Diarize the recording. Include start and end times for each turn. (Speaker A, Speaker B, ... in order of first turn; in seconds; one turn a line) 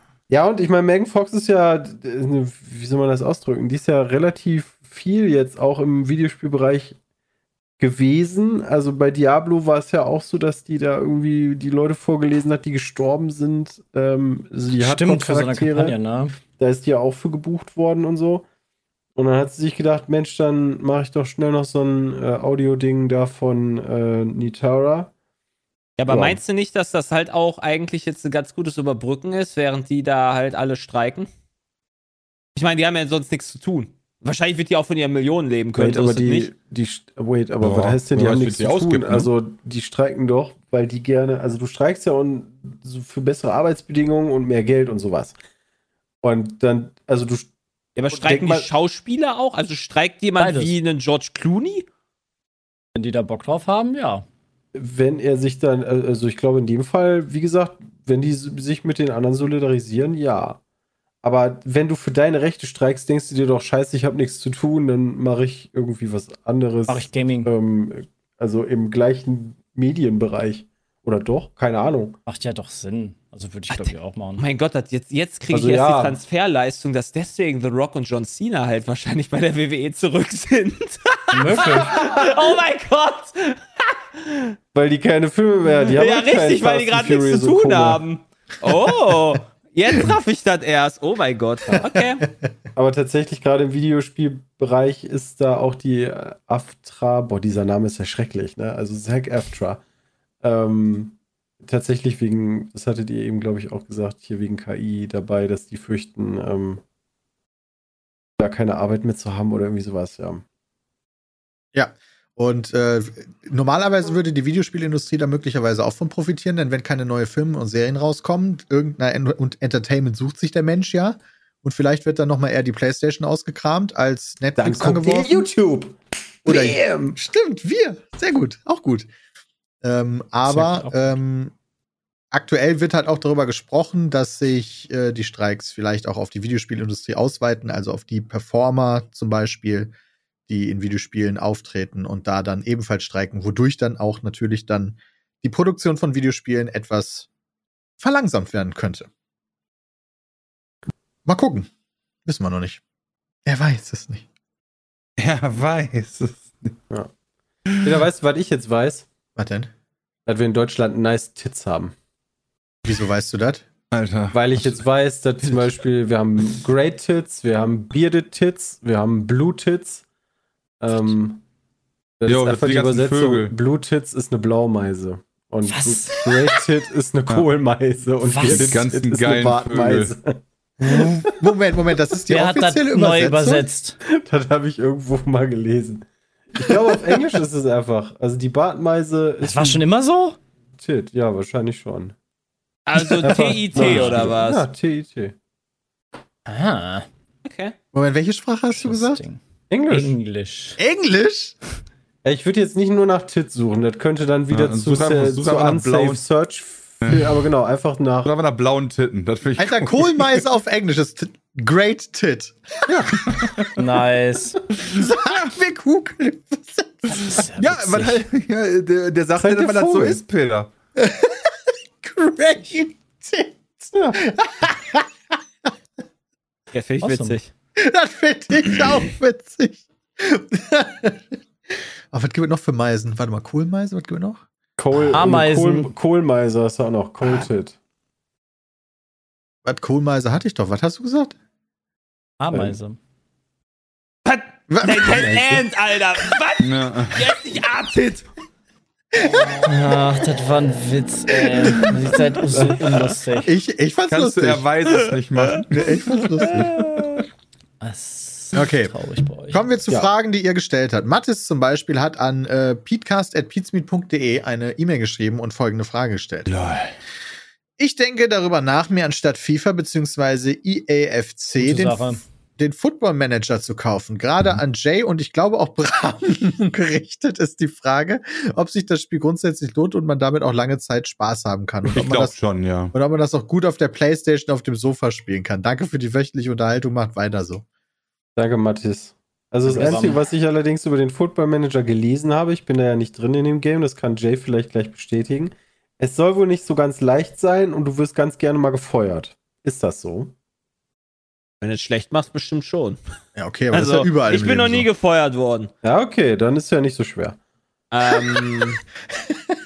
Speaker A: 0.3-7.0
Speaker A: 7.8-16.0
Speaker B: 14.8-16.4
Speaker A: 16.6-18.4
Speaker A: 19.1-25.1
Speaker C: 26.0-31.3
Speaker A: 26.1-26.4
Speaker C: 32.5-36.5
Speaker A: 35.8-45.4
Speaker D: 37.6-39.3
Speaker A: 46.2-47.5
Speaker C: 48.0-51.8
Speaker A: 48.1-48.7
Speaker B: 50.4-50.8
Speaker B: 52.9-54.2
Speaker A: 54.7-60.6
Speaker A: 61.2-72.2
Speaker B: 66.9-67.5
Speaker B: 72.2-74.4
Speaker C: 73.7-84.5
Speaker A: 75.5-76.2
Speaker B: 81.3-82.1
Speaker A: 84.7-88.0
Speaker C: 85.7-92.3
Speaker A: 92.7-99.8
Speaker A: 100.4-106.8
Speaker A: 108.4-110.4
Speaker E: 111.7-125.4
Speaker A: 124.5-127.2
Speaker E: 126.5-129.1
Speaker E: 129.8-131.5
Speaker B: 130.4-131.2
Speaker E: 132.3-139.9
Speaker E: 140.5-147.3
Speaker E: 148.0-149.1
Speaker E: 151.2-151.7
Speaker E: 152.2-152.8
Speaker E: 153.4-154.2
Speaker D: 155.2-156.8
Speaker D: 157.7-158.0
Speaker A: 157.8-159.1
Speaker E: 159.3-159.7
Speaker A: 160.2-161.9
Speaker E: 162.8-163.7
Speaker D: 163.9-164.8
Speaker A: 164.3-170.0
Speaker A: 170.8-171.4
Speaker A: 172.2-181.5
Speaker D: 172.3-173.5
Speaker B: 175.6-176.2
Speaker B: 178.2-178.8
Speaker D: 178.4-180.1
Speaker E: 180.8-183.7
Speaker B: 182.3-184.0
Speaker A: 184.0-189.8
Speaker B: 189.4-190.4
Speaker A: 190.8-192.1
Speaker C: 192.8-194.6
Speaker A: 193.2-195.3
Speaker B: 193.2-194.3
Speaker B: 196.5-197.1
Speaker C: 197.4-197.7
Speaker E: 197.9-199.2
Speaker B: 198.7-200.8
Speaker A: 199.7-200.1
Speaker E: 200.8-201.6
Speaker A: 202.2-208.3
Speaker D: 204.5-206.2
Speaker D: 207.0-207.3
Speaker D: 208.2-210.4
Speaker E: 209.6-213.4
Speaker D: 212.9-213.7
Speaker B: 213.8-214.6
Speaker D: 214.8-215.1
Speaker E: 214.9-217.4
Speaker B: 217.2-218.2
Speaker D: 217.6-220.7
Speaker A: 219.4-220.2
Speaker E: 220.9-225.1
Speaker C: 226.7-227.5
Speaker B: 227.0-227.3
Speaker E: 227.8-234.4
Speaker A: 234.8-237.8
Speaker B: 235.1-235.9
Speaker E: 239.6-241.3
Speaker B: 242.4-243.0
Speaker C: 244.2-248.2
Speaker E: 244.7-245.6
Speaker D: 246.6-247.3
Speaker E: 249.2-249.7
Speaker B: 249.6-253.5
Speaker A: 252.5-252.8
Speaker E: 253.4-254.6
Speaker D: 254.1-255.7
Speaker C: 255.0-255.6
Speaker E: 255.7-256.7
Speaker C: 256.2-257.2
Speaker D: 256.5-257.2
Speaker B: 257.8-259.6
Speaker E: 258.5-258.9
Speaker E: 259.5-266.5
Speaker D: 266.4-266.9
Speaker E: 267.8-282.4
Speaker B: 271.6-272.2
Speaker D: 281.9-282.9
Speaker E: 282.9-287.6
Speaker A: 288.4-300.3
Speaker B: 289.7-290.2
Speaker C: 301.6-303.0
Speaker E: 303.3-304.9
Speaker C: 303.7-305.7
Speaker A: 305.8-307.4
Speaker C: 307.9-308.8